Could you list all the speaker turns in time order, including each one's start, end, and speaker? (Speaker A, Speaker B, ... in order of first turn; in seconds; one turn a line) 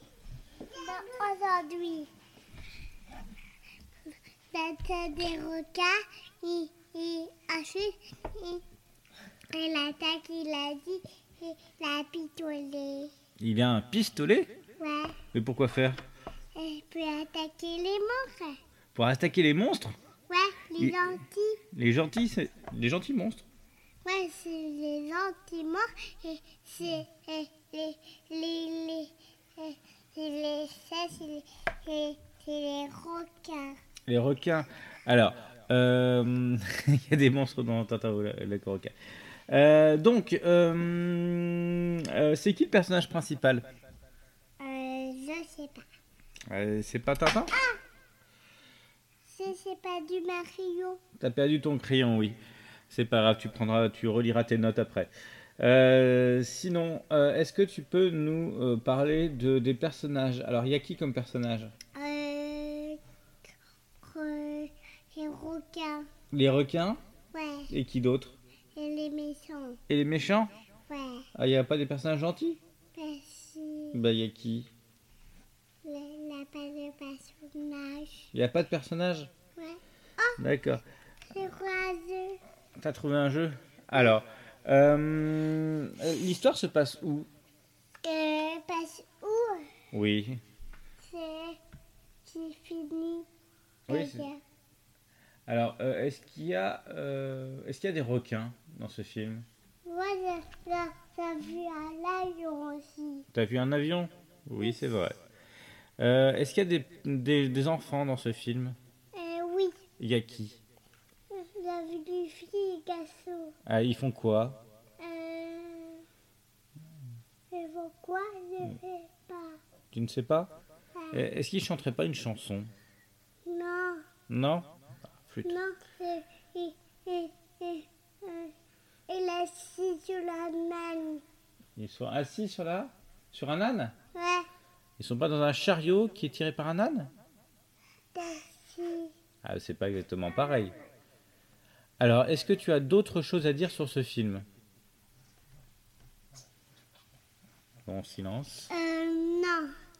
Speaker A: 0.8-2.1
Speaker A: 4.5-8.6
Speaker A: 9.5-13.1
Speaker B: 13.4-14.5
Speaker A: 14.8-15.2
Speaker B: 15.3-16.0
Speaker A: 16.6-18.6
Speaker B: 18.9-20.0
Speaker A: 20.3-21.6
Speaker B: 20.8-21.1
Speaker B: 21.7-23.5
Speaker A: 24.1-33.8
Speaker B: 34.1-38.9
Speaker B: 39.5-43.6
Speaker A: 44.6-45.9
Speaker B: 46.5-47.5
Speaker A: 49.3-51.0
Speaker B: 51.2-52.4
Speaker B: 52.9-61.7
Speaker A: 62.0-63.0
Speaker A: 64.0-66.1
Speaker B: 66.3-67.0
Speaker A: 67.3-67.7
Speaker B: 67.7-68.4
Speaker A: 68.8-69.8
Speaker B: 69.9-70.5
Speaker A: 70.9-71.3
Speaker B: 71.3-72.6
Speaker A: 73.0-74.0
Speaker B: 73.9-74.7
Speaker A: 75.8-78.3
Speaker B: 78.3-79.3
Speaker A: 79.6-80.4
Speaker B: 80.4-80.8
Speaker A: 81.3-82.4
Speaker B: 82.8-87.3
Speaker A: 88.0-89.7
Speaker B: 89.9-90.4
Speaker A: 91.0-91.6
Speaker A: 92.2-93.3
Speaker A: 93.9-94.4
Speaker B: 93.9-94.3
Speaker B: 95.5-99.5
Speaker A: 99.9-103.3
Speaker B: 103.3-105.2
Speaker B: 106.0-108.8
Speaker A: 109.2-109.8
Speaker B: 110.0-110.6
Speaker A: 111.3-113.5
Speaker B: 113.7-114.6
Speaker A: 115.0-116.0
Speaker A: 117.5-119.6
Speaker B: 119.9-120.5
Speaker A: 121.0-121.3
Speaker B: 121.1-122.7
Speaker A: 123.5-124.0
Speaker B: 124.3-124.7
Speaker B: 125.2-125.5
Speaker A: 125.5-128.5
Speaker A: 129.1-131.2
Speaker B: 131.8-133.9
Speaker A: 134.2-134.5
Speaker B: 135.0-137.1
Speaker A: 138.2-139.1
Speaker B: 139.4-140.8
Speaker B: 142.0-144.5
Speaker B: 147.9-148.7
Speaker A: 148.7-149.7